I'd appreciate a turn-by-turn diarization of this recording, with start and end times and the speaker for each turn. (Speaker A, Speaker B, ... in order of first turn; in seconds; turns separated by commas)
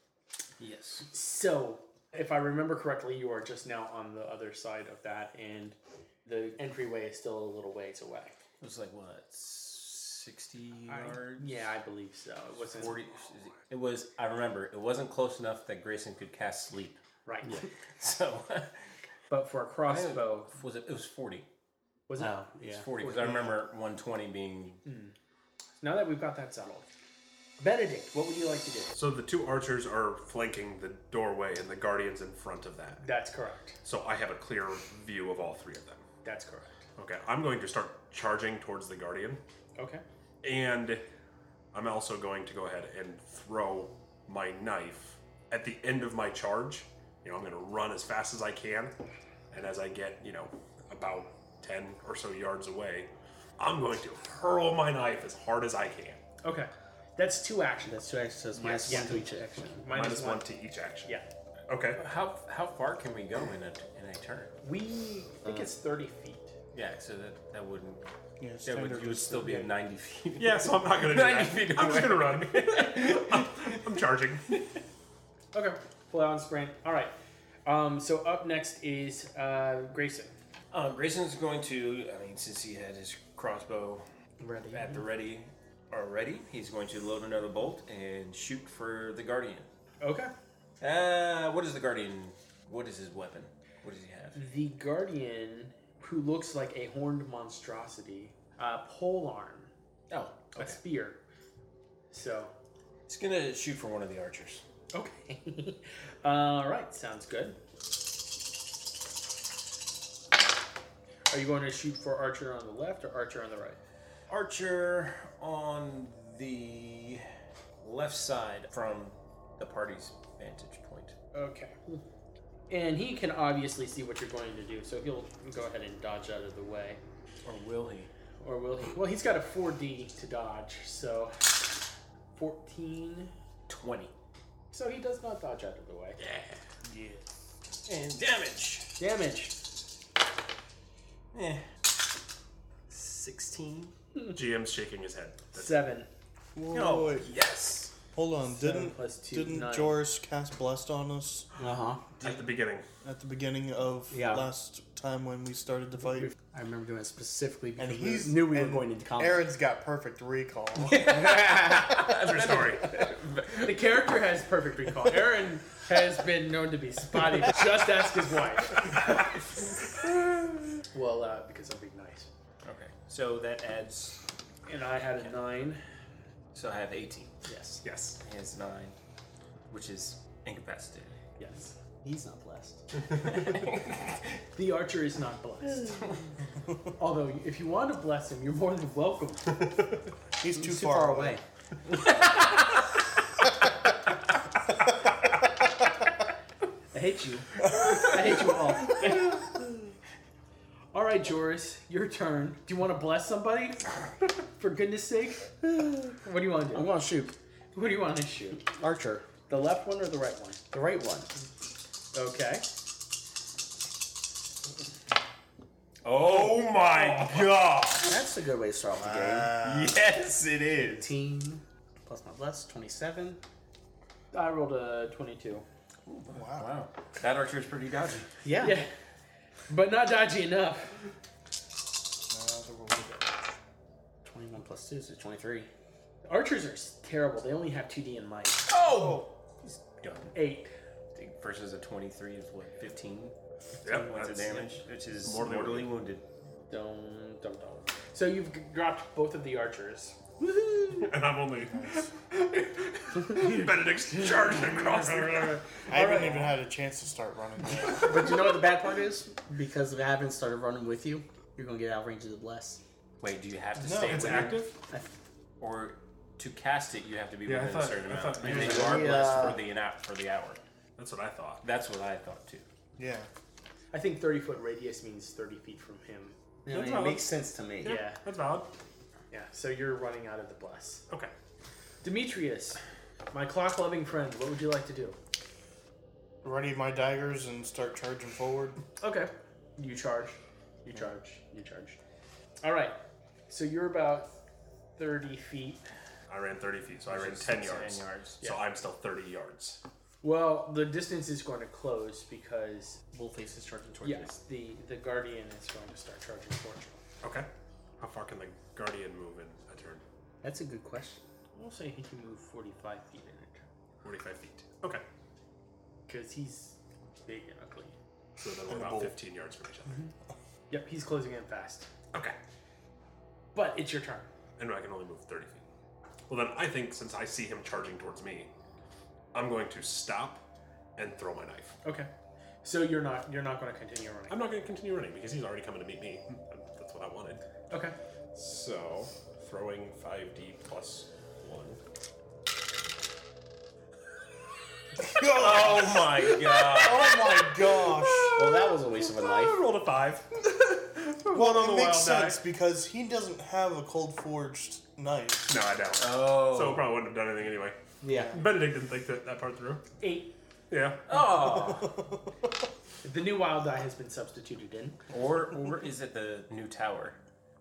Speaker A: 0.6-1.1, Speaker B: 1.1-8.4, Speaker A: 8.6-11.5, Speaker B: 10.9-12.9, Speaker A: 12.6-17.0, Speaker B: 17.2-17.6, Speaker A: 18.0-18.7, Speaker B: 19.3-20.5, Speaker A: 19.9-21.5, Speaker B: 22.1-22.4, Speaker C: 22.2-22.9, Speaker A: 22.7-24.8, Speaker B: 23.0-23.5, Speaker B: 24.8-25.1, Speaker B: 25.8-26.9, Speaker B: 27.6-28.9, Speaker D: 28.9-33.0, Speaker B: 33.0-33.8, Speaker D: 33.8-36.0, Speaker B: 36.2-36.7, Speaker D: 37.0-39.4, Speaker B: 39.8-40.0, Speaker D: 40.4-41.0, Speaker D: 41.7-48.9, Speaker D: 49.5-56.2, Speaker B: 56.4-58.0, Speaker C: 57.9-59.8, Speaker D: 58.6-58.9, Speaker B: 58.8-60.5, Speaker D: 59.9-62.0, Speaker A: 62.0-64.5, Speaker B: 64.6-66.5, Speaker A: 66.7-68.0, Speaker E: 68.4-69.6, Speaker A: 68.6-73.8, Speaker B: 69.4-69.7, Speaker D: 70.4-74.5, Speaker B: 75.5-77.1, Speaker B: 77.6-80.3, Speaker A: 80.7-84.0, Speaker C: 84.4-85.0, Speaker A: 84.7-89.7, Speaker B: 90.0-90.3, Speaker A: 90.8-94.4, Speaker B: 94.3-99.7, Speaker A: 100.1-100.8, Speaker B: 100.6-101.2, Speaker B: 102.1-102.5, Speaker A: 103.1-104.6, Speaker B: 104.9-107.6, Speaker B: 111.3-113.8, Speaker A: 114.3-117.2, Speaker A: 117.8-121.2, Speaker B: 121.3-122.0, Speaker B: 122.7-127.0, Speaker A: 127.4-128.1, Speaker B: 128.4-131.5, Speaker B: 132.3-133.3, Speaker A: 133.7-134.1, Speaker B: 134.7-136.2, Speaker A: 136.2-136.6, Speaker E: 136.9-137.2, Speaker A: 137.8-138.9, Speaker B: 139.0-139.5, Speaker A: 141.3-141.6, Speaker A: 142.9-143.9, Speaker D: 144.3-145.8, Speaker B: 145.5-146.1, Speaker E: 146.5-147.3, Speaker A: 146.7-147.9, Speaker E: 148.1-151.5, Speaker B: 148.4-150.0, Speaker C: 151.6-152.1, Speaker D: 152.2-152.8, Speaker E: 153.0-156.3, Speaker C: 154.1-154.5, Speaker C: 156.4-159.4, Speaker E: 157.8-161.8, Speaker A: 160.8-163.8, Speaker D: 162.1-163.0, Speaker B: 163.6-169.1, Speaker B: 170.9-172.3, Speaker A: 172.6-174.2, Speaker B: 174.7-175.8, Speaker A: 176.5-177.3, Speaker B: 177.5-177.8, Speaker D: 177.8-178.2, Speaker A: 178.2-178.9, Speaker A: 179.7-181.1, Speaker B: 181.4-181.8, Speaker C: 182.0-182.8, Speaker A: 183.2-184.2, Speaker B: 184.6-186.1, Speaker B: 187.0-189.7, Speaker E: 190.4-191.4, Speaker C: 190.6-191.4, Speaker B: 196.9-199.5, Speaker B: 200.9-205.5, Speaker C: 205.7-206.0, Speaker B: 206.2-206.9, Speaker C: 206.7-207.3, Speaker B: 207.7-208.6, Speaker C: 208.8-209.2, Speaker B: 209.5-210.6, Speaker C: 210.7-211.3, Speaker B: 212.1-212.7, Speaker A: 216.0-218.2, Speaker D: 216.3-217.5, Speaker C: 218.1-219.6, Speaker E: 219.0-220.0, Speaker A: 219.6-221.1, Speaker C: 220.9-223.4, Speaker B: 224.3-225.6, Speaker A: 226.1-228.3, Speaker E: 226.3-226.7, Speaker C: 228.4-228.8, Speaker B: 228.6-228.9, Speaker B: 229.7-231.0, Speaker E: 232.3-233.2, Speaker C: 234.2-235.7, Speaker B: 236.2-238.7, Speaker A: 238.7-240.3, Speaker E: 239.0-239.2, Speaker B: 240.3-240.7, Speaker A: 241.1-243.3, Speaker D: 243.8-245.9, Speaker A: 243.9-246.2, Speaker B: 246.7-250.2, Speaker C: 250.5-250.8, Speaker D: 250.9-256.4, Speaker E: 251.6-252.1, Speaker B: 254.8-256.5, Speaker E: 255.9-258.4, Speaker C: 257.9-262.8, Speaker A: 263.2-264.7, Speaker E: 263.8-264.5, Speaker D: 263.9-264.7, Speaker A: 265.6-270.6, Speaker D: 267.4-269.4, Speaker C: 268.4-269.6, Speaker D: 271.0-271.6, Speaker A: 271.6-272.6, Speaker E: 273.0-273.3, Speaker B: 273.9-276.4, Speaker C: 276.6-278.0, Speaker D: 276.7-277.2, Speaker D: 277.8-278.7, Speaker B: 277.8-278.2, Speaker B: 279.3-281.0, Speaker B: 282.0-282.8, Speaker B: 283.3-285.2, Speaker E: 286.4-288.8, Speaker B: 289.0-292.0, Speaker B: 292.6-294.3, Speaker B: 295.0-295.8, Speaker D: 296.3-299.8, Speaker A: 297.1-298.4, Speaker B: 300.2-303.0, Speaker C: 303.1-304.3, Speaker B: 304.0-307.0, Speaker D: 307.2-307.5, Speaker D: 308.0-310.0, Speaker C: 310.4-311.2, Speaker B: 311.5-313.6, Speaker D: 314.0-315.0, Speaker B: 316.1-317.9, Speaker D: 318.4-320.0, Speaker E: 318.6-319.2, Speaker B: 320.7-321.9, Speaker B: 323.5-324.3, Speaker D: 324.6-325.6, Speaker D: 326.3-328.5, Speaker D: 329.3-330.4, Speaker D: 330.9-331.8, Speaker B: 331.8-332.1, Speaker B: 332.6-334.4, Speaker D: 334.3-337.4, Speaker B: 337.7-337.9, Speaker D: 338.3-341.8, Speaker E: 345.0-348.4, Speaker D: 345.1-345.8, Speaker A: 345.3-347.1, Speaker D: 347.0-352.4, Speaker C: 348.3-349.6, Speaker E: 351.3-355.5, Speaker D: 355.5-357.8, Speaker A: 356.0-356.9, Speaker C: 358.0-358.4, Speaker E: 358.1-358.5, Speaker D: 358.3-359.8, Speaker B: 360.0-360.3, Speaker D: 360.7-361.1, Speaker A: 361.1-362.0, Speaker E: 361.3-362.2, Speaker B: 363.0-365.0, Speaker A: 365.1-367.2